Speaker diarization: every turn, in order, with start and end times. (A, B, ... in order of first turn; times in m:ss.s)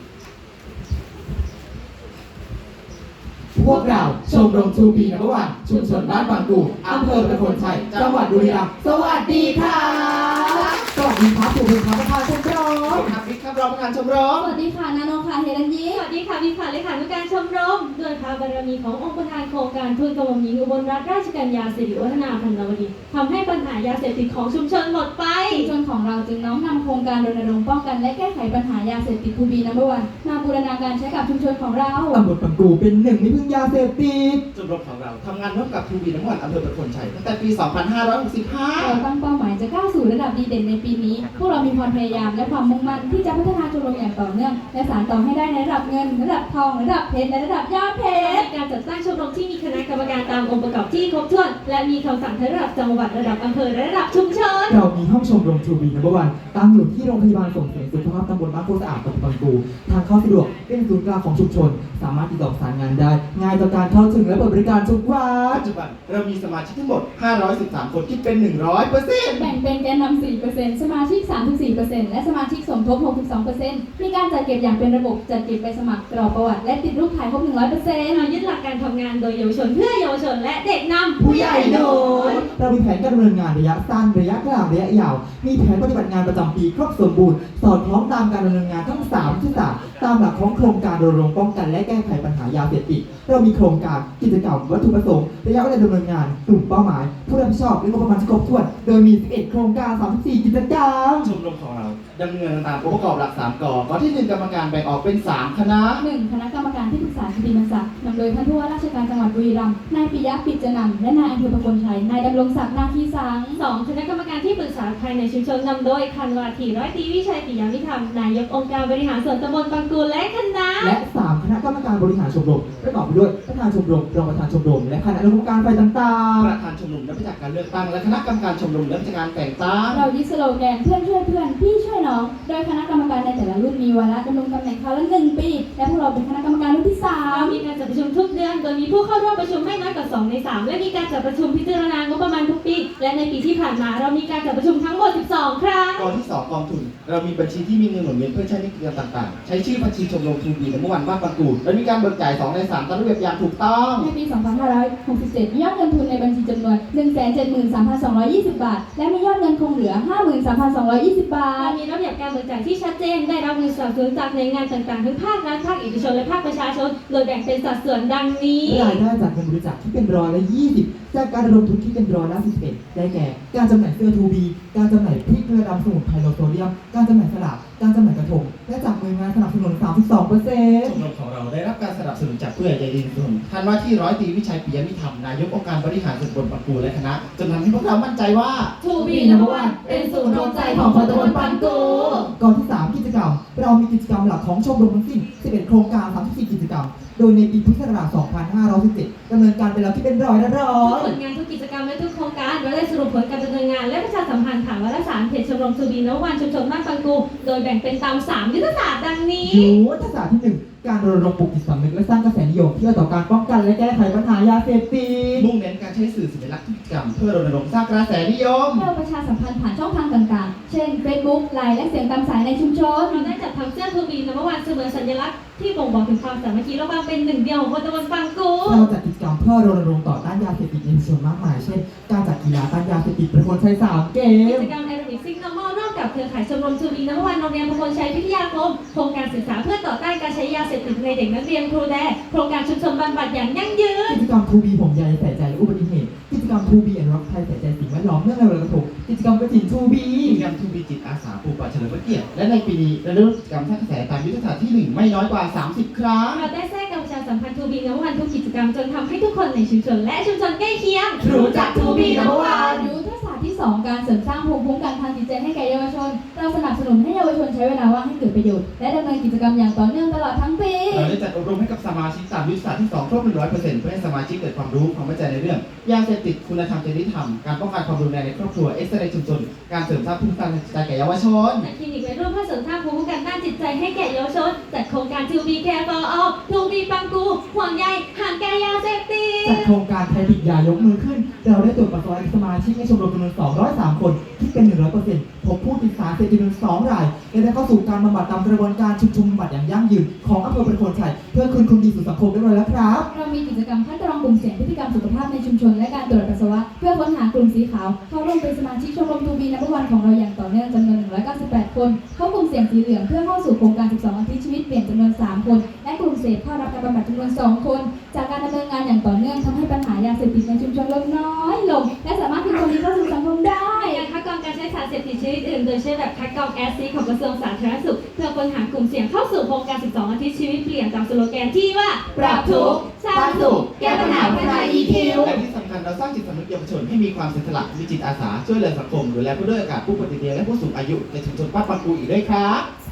0:03.6-0:13.1 A
0:03.7-0:06.8 B
0:06.8-0:10.7 C
0:12.9-0:14.6 C
0:14.4-0:16.0 D
0:15.9-0:25.7 B
0:25.5-0:32.2 D
0:32.1-0:34.4 A
0:34.5-0:39.0 C
0:38.8-0:48.5 D
0:48.2-0:54.8 B
0:54.7-1:05.6 A
1:05.5-1:09.6 C
1:09.4-1:18.3 D
1:18.1-1:22.5 B
1:21.2-1:41.3 A
1:41.2-1:46.0 C
1:46.0-1:53.6 D
1:53.6-2:01.0 B
2:00.8-2:06.6 A
2:06.4-2:10.0 C
2:09.9-2:17.6 D
2:17.3-2:26.1 B
2:26.0-2:34.1 C
2:34.0-2:41.8 D
2:41.6-2:49.0 B
2:48.6-3:01.0 A
3:00.8-3:08.7 C
3:08.8-3:12.3 B
3:09.0-3:21.2 A
3:10.8-3:11.2 C
3:20.8-3:29.8 B
3:29.4-3:35.5 A
3:35.3-3:38.9 C
3:38.7-3:43.3 D
3:43.1-3:48.9 B
3:48.6-3:54.7 A
3:54.4-4:04.2 B
4:04.1-4:10.4 A
4:10.2-4:16.4 C
4:16.3-4:22.9 B
4:21.2-4:22.9 A
4:21.5-4:31.1 D
4:30.9-4:41.7 C
4:41.6-4:49.7 B
4:49.4-5:03.1 A
5:03.1-5:24.0 D
5:23.7-5:35.3 B
5:32.2-5:35.4 A
5:32.2-5:32.5 D
5:33.4-5:42.7 C
5:34.0-5:35.2 D